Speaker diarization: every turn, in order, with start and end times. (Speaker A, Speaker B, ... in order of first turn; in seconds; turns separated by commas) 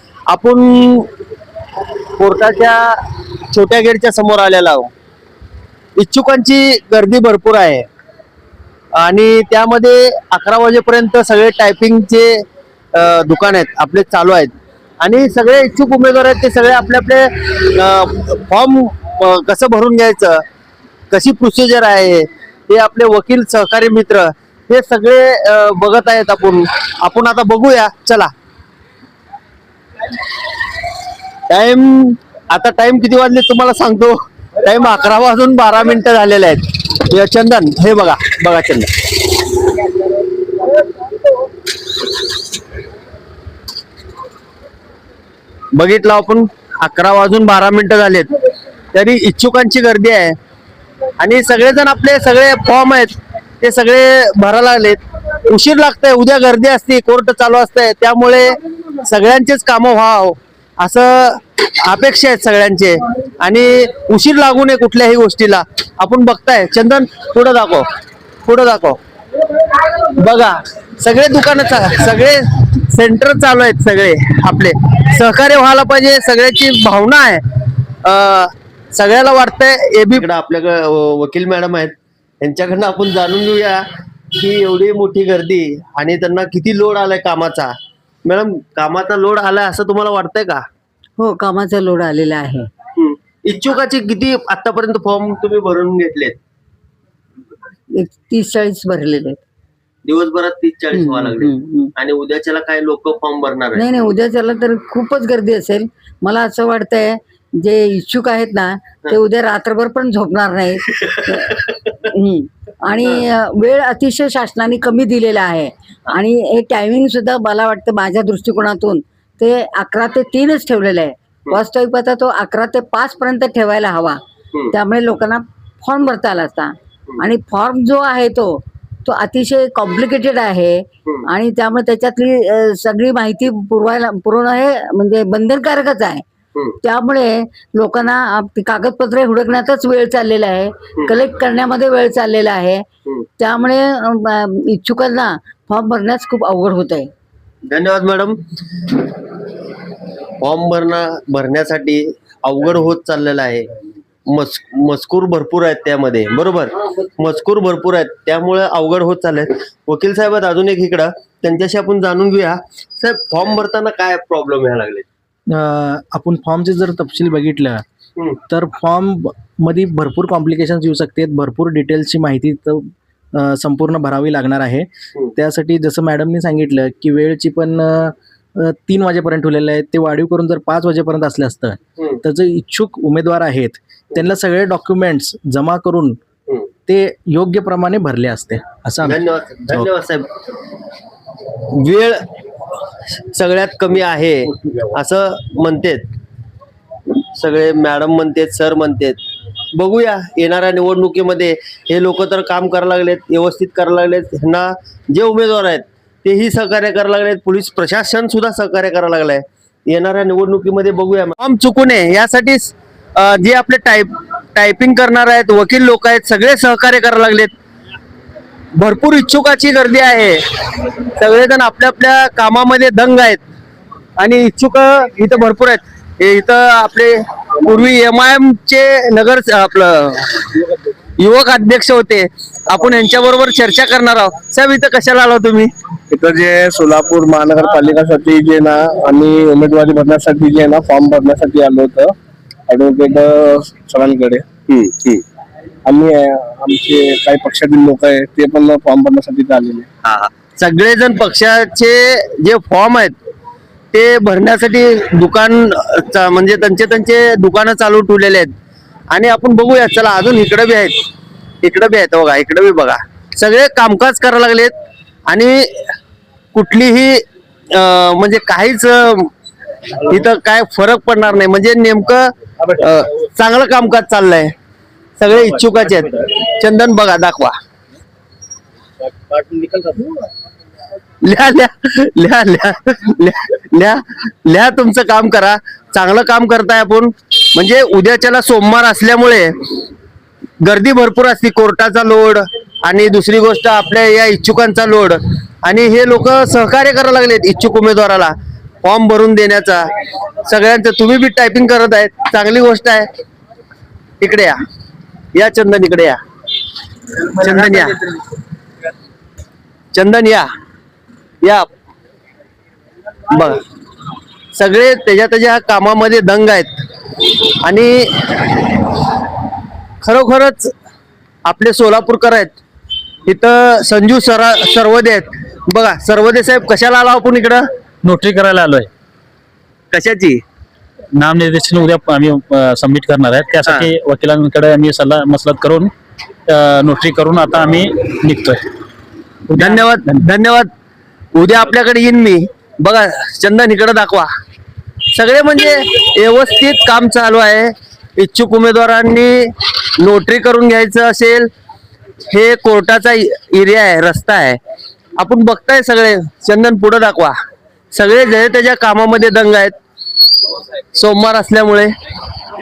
Speaker A: 0.3-1.1, Speaker A: 2.2-3.0, Speaker A: 3.5-4.9, Speaker A: 6.0-7.9, Speaker A: 8.9-12.4, Speaker A: 12.9-20.4, Speaker A: 21.1-28.3, Speaker A: 31.5-39.1, Speaker A: 45.7-48.3, Speaker A: 48.9-50.4, Speaker A: 51.2-67.9, Speaker A: 68.4-69.0, Speaker A: 70.0-77.4, Speaker A: 78.0-87.7, Speaker A: 88.2-90.6, Speaker B: 91.2-92.7, Speaker A: 93.0-96.4, Speaker B: 97.9-99.4, Speaker A: 100.0-103.9, Speaker B: 100.9-101.9, Speaker B: 103.7-111.6, Speaker A: 111.0-111.7, Speaker B: 112.1-124.2, Speaker B: 124.7-136.2, Speaker B: 136.8-142.8, Speaker B: 143.4-147.1, Speaker A: 147.7-148.4, Speaker A: 150.4-153.7, Speaker A: 154.3-165.1, Speaker C: 165.5-167.8, Speaker C: 168.5-186.2, Speaker C: 186.9-189.9, Speaker A: 189.0-190.3, Speaker A: 191.7-192.2, Speaker A: 193.3-196.0, Speaker A: 197.3-199.2, Speaker A: 199.7-217.5, Speaker A: 218.8-220.4, Speaker A: 221.2-223.4, Speaker A: 224.2-230.4, Speaker A: 231.2-235.7, Speaker D: 236.1-242.1, Speaker D: 242.7-244.4, Speaker A: 244.7-245.2, Speaker D: 245.9-249.8, Speaker A: 250.0-253.2, Speaker A: 253.9-258.5, Speaker A: 259.1-260.9, Speaker A: 261.6-264.7, Speaker A: 265.3-265.9, Speaker A: 266.5-269.3, Speaker A: 269.9-274.5, Speaker A: 275.2-277.6, Speaker A: 281.2-289.5, Speaker A: 290.6-299.9, Speaker A: 300.4-303.1, Speaker A: 304.2-304.6, Speaker A: 305.3-306.2, Speaker A: 307.3-308.0, Speaker A: 309.9-310.5, Speaker A: 313.3-313.6, Speaker A: 314.5-316.7, Speaker A: 317.3-318.8, Speaker A: 320.0-320.7, Speaker A: 321.4-322.5, Speaker A: 323.3-327.6, Speaker E: 328.0-328.9, Speaker A: 329.9-330.4, Speaker E: 331.1-335.9, Speaker A: 333.6-333.9, Speaker E: 336.5-338.6, Speaker E: 339.5-339.9, Speaker A: 339.6-340.7, Speaker A: 341.3-344.3, Speaker A: 345.1-351.5, Speaker A: 352.3-354.6, Speaker A: 355.2-357.4, Speaker A: 357.9-359.7, Speaker A: 360.9-361.9